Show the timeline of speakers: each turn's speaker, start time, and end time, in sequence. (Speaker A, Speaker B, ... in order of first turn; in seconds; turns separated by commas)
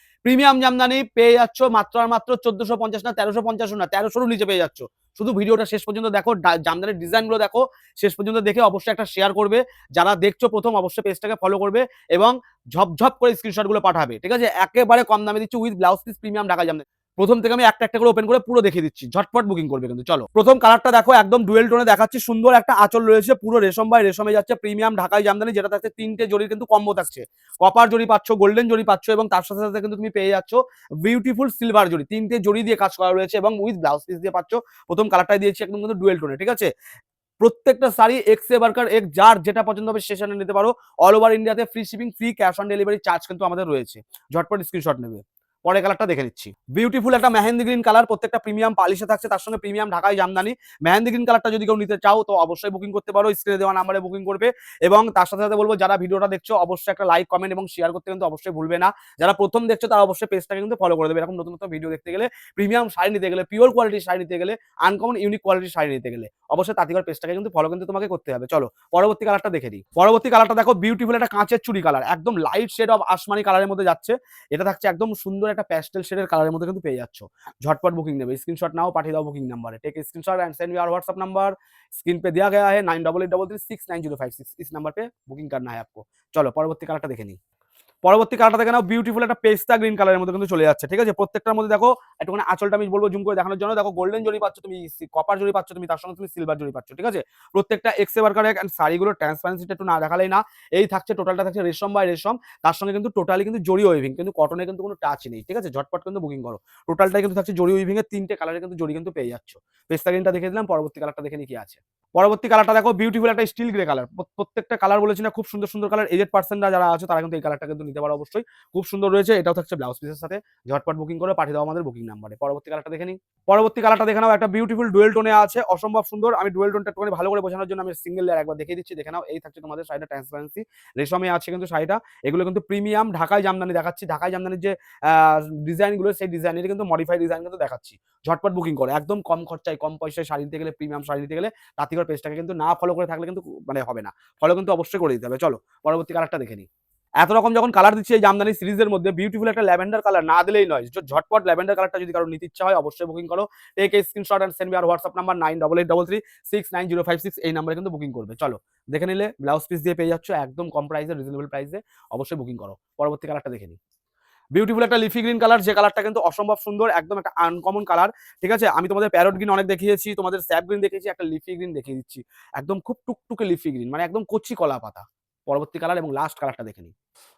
Speaker A: 0.2-36.7, Speaker A: 37.4-87.4, Speaker A: 88.0-146.7, Speaker A: 147.2-163.8, Speaker A: 164.5-176.9